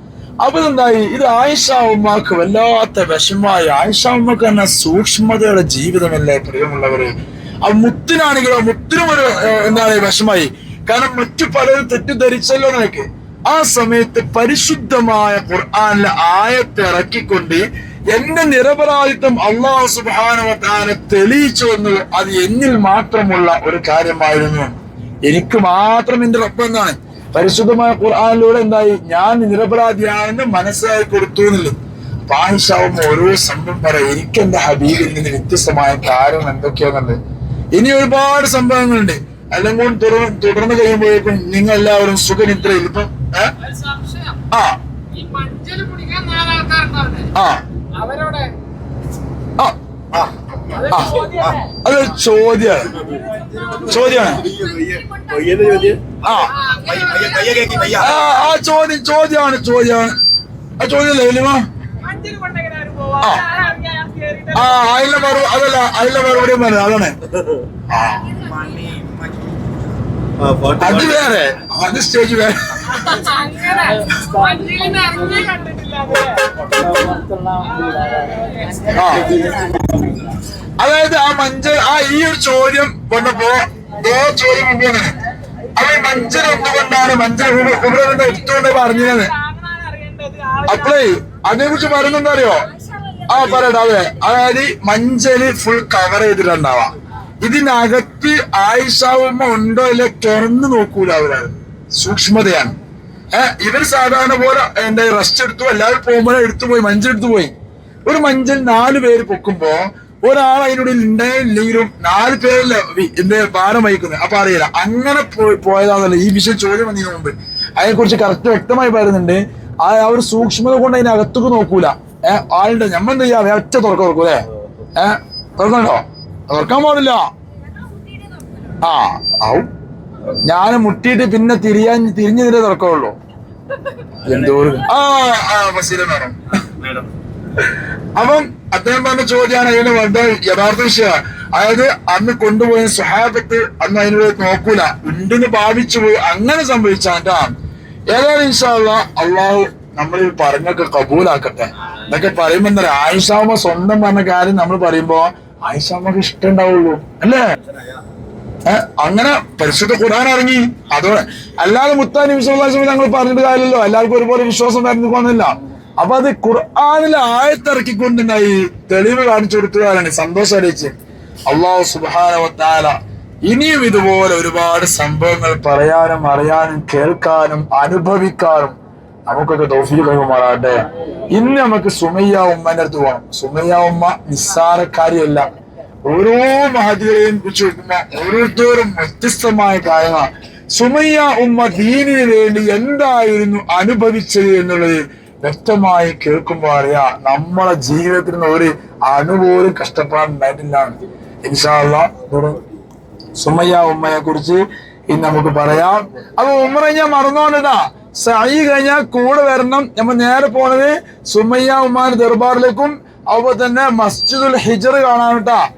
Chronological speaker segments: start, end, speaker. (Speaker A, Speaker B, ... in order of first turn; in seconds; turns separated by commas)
Speaker A: 0.4-7.1, Speaker A: 7.7-24.7, Speaker A: 25.2-37.2, Speaker A: 37.7-43.5, Speaker B: 43.8-44.3, Speaker A: 44.5-44.8, Speaker B: 45.1-47.3, Speaker A: 47.3-47.6, Speaker B: 48.0-48.5, Speaker C: 50.1-50.5, Speaker A: 50.9-52.9, Speaker B: 50.9-51.5, Speaker C: 51.2-51.6, Speaker C: 53.1-58.2, Speaker A: 53.8-54.5, Speaker A: 56.2-56.5, Speaker B: 56.6-58.2, Speaker A: 57.9-60.1, Speaker A: 60.8-61.6, Speaker B: 62.0-64.9, Speaker A: 63.2-63.5, Speaker A: 64.5-67.1, Speaker A: 67.9-68.4, Speaker C: 68.5-69.1, Speaker C: 70.4-71.0, Speaker A: 70.8-73.2, Speaker B: 73.0-76.4, Speaker B: 77.6-78.5, Speaker A: 78.9-79.4, Speaker A: 80.8-85.1, Speaker A: 85.8-89.3, Speaker B: 89.2-90.8, Speaker A: 90.7-92.7, Speaker A: 93.3-102.7, Speaker A: 103.3-107.5, Speaker A: 108.0-124.4, Speaker A: 124.9-127.3, Speaker A: 128.8-129.7, Speaker A: 130.4-133.1, Speaker A: 134.2-136.4, Speaker C: 136.7-137.1, Speaker A: 138.2-147.5, Speaker A: 148.1-157.5, Speaker C: 157.6-158.0, Speaker A: 158.7-170.9, Speaker A: 171.5-172.9, Speaker A: 173.5-178.8, Speaker A: 179.3-185.5, Speaker A: 186.1-202.6, Speaker A: 203.4-215.6